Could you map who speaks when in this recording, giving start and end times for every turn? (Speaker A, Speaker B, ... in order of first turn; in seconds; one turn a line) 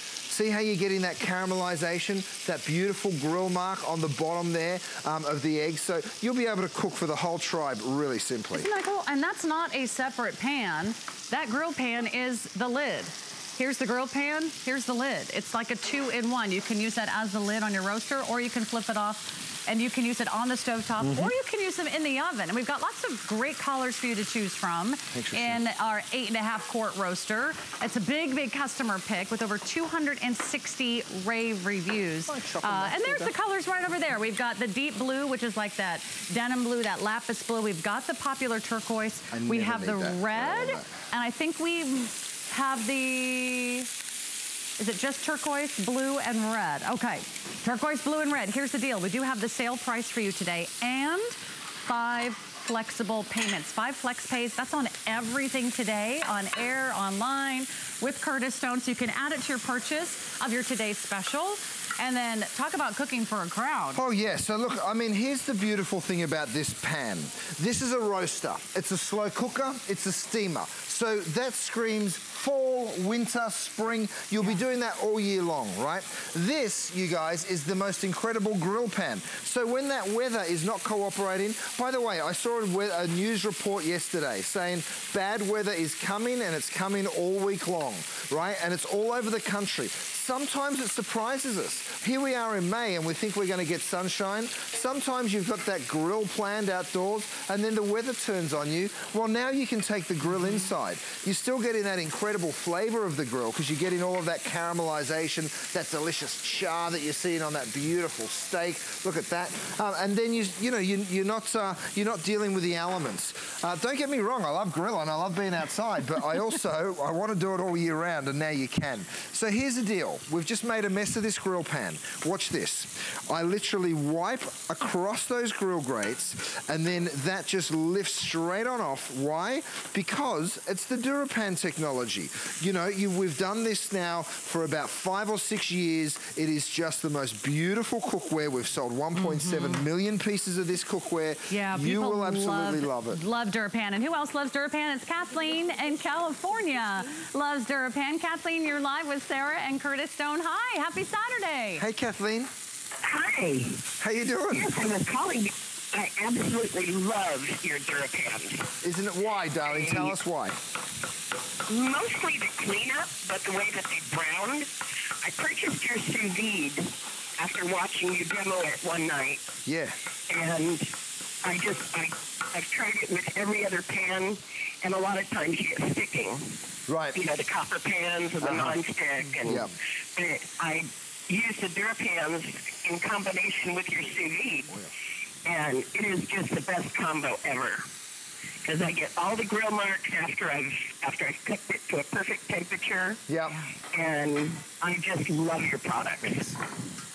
Speaker A: 0.3-8.7
Speaker B: 8.5-43.9
Speaker A: 21.0-21.4
Speaker A: 25.1-25.6
Speaker A: 32.3-33.4
Speaker A: 39.3-40.9
Speaker B: 44.8-64.0
Speaker A: 64.0-143.2
Speaker B: 139.1-139.8
Speaker B: 141.5-151.9
Speaker A: 151.8-152.5
Speaker C: 153.0-153.9
Speaker A: 154.0-154.7
Speaker C: 154.5-158.7
Speaker A: 158.8-160.6
Speaker C: 159.6-160.2
Speaker C: 161.7-164.7
Speaker C: 165.2-169.5
Speaker A: 169.7-170.0
Speaker C: 170.3-170.9
Speaker C: 171.4-176.6
Speaker A: 176.9-177.2
Speaker C: 177.1-184.8
Speaker A: 178.4-178.8
Speaker A: 179.4-179.7
Speaker C: 185.4-187.9
Speaker C: 188.6-193.2
Speaker A: 193.3-193.6
Speaker C: 193.9-196.6